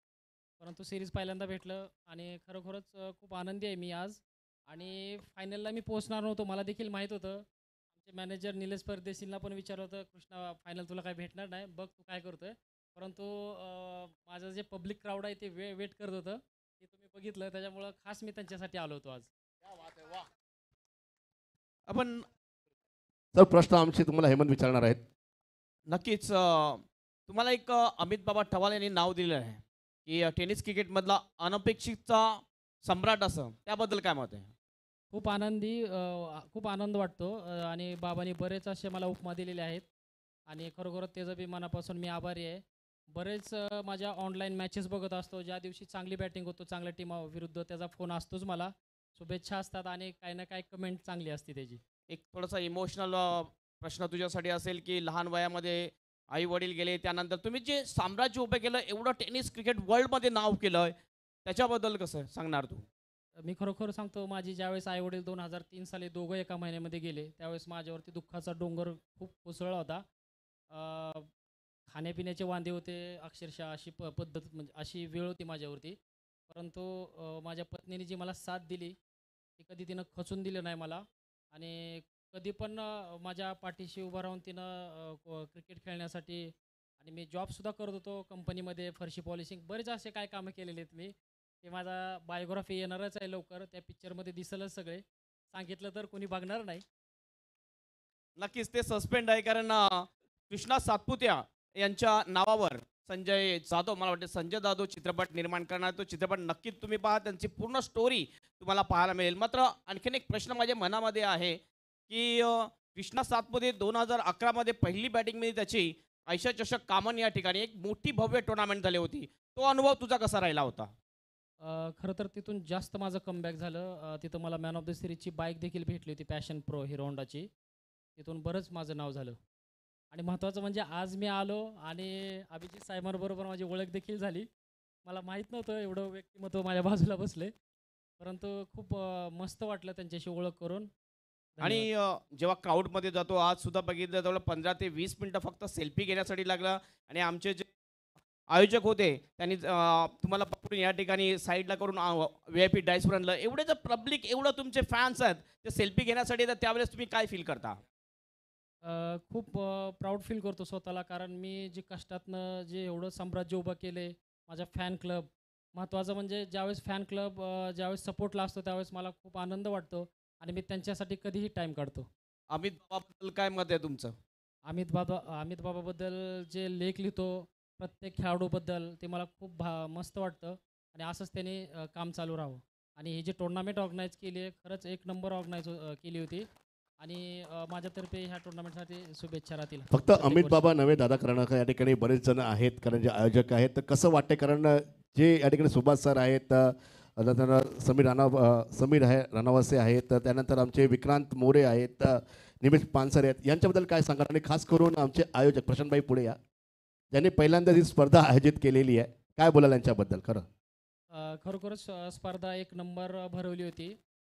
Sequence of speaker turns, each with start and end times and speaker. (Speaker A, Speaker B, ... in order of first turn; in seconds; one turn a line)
Speaker A: 0.6-7.4
Speaker A: 8.0-19.3
Speaker B: 21.9-22.3
Speaker C: 23.3-25.0
Speaker B: 25.9-34.5
Speaker A: 35.1-39.8
Speaker A: 40.5-51.8
Speaker B: 52.1-62.8
Speaker A: 63.4-70.0
Speaker A: 70.7-71.3
Speaker A: 71.9-76.0
Speaker A: 76.5-79.0
Speaker A: 79.6-96.8
Speaker B: 98.4-120.9
Speaker A: 121.6-127.5
Speaker A: 128.2-129.4
Speaker A: 130.1-134.5
Speaker A: 135.0-137.5
Speaker A: 138.2-140.9
Speaker A: 141.6-141.9
Speaker B: 141.6-147.7
Speaker B: 148.5-157.8
Speaker A: 158.8-172.1
Speaker B: 172.5-174.2
Speaker A: 174.7-186.5
Speaker A: 187.0-190.7
Speaker C: 189.9-206.4
Speaker C: 207.1-210.5
Speaker A: 211.1-214.0